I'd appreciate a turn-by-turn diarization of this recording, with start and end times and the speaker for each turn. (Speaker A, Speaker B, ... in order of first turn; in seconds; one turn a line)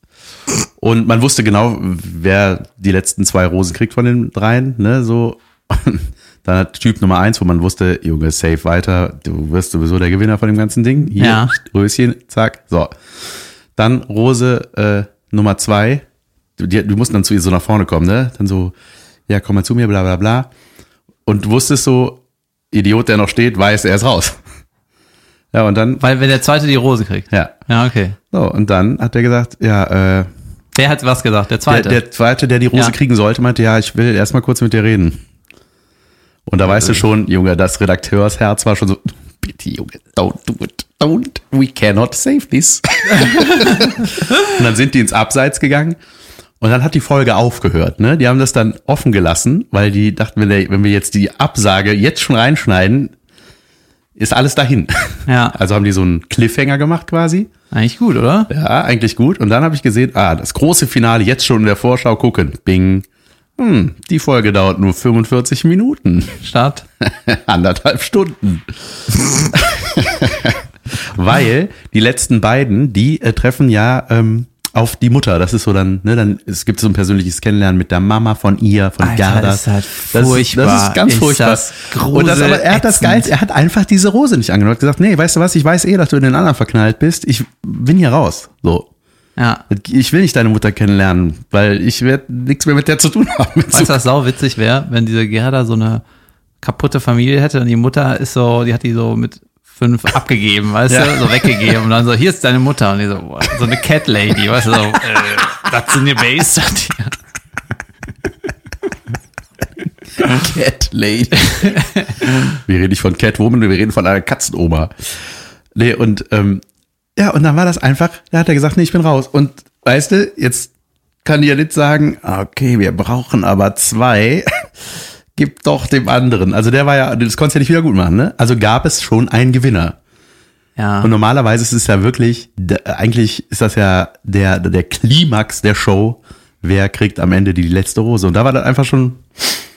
Speaker A: 0.8-12.9
Speaker B: 11.2-11.5
Speaker A: 13.8-16.0
Speaker A: 16.6-18.8
Speaker A: 19.3-20.5
Speaker A: 21.3-22.2
Speaker A: 22.7-24.4
Speaker A: 25.5-26.0
Speaker B: 26.0-28.2
Speaker A: 28.3-30.3
Speaker B: 30.8-32.0
Speaker A: 31.7-35.2
Speaker A: 36.5-46.0
Speaker B: 36.7-37.0
Speaker A: 46.6-53.1
Speaker A: 54.2-57.5
Speaker B: 55.3-55.6
Speaker B: 57.7-58.5
Speaker A: 58.5-63.1
Speaker A: 63.6-66.4
Speaker B: 66.4-66.8
Speaker A: 67.0-88.9
Speaker B: 79.0-83.3
Speaker B: 89.4-89.6
Speaker A: 89.7-94.0
Speaker B: 93.7-96.0
Speaker B: 96.6-107.2
Speaker A: 100.9-101.5
Speaker A: 110.2-111.8
Speaker B: 111.5-112.2
Speaker A: 112.3-114.9
Speaker A: 115.8-116.6
Speaker A: 117.2-120.7
Speaker A: 121.2-124.7
Speaker A: 125.3-130.0
Speaker B: 130.8-131.1
Speaker A: 131.0-139.6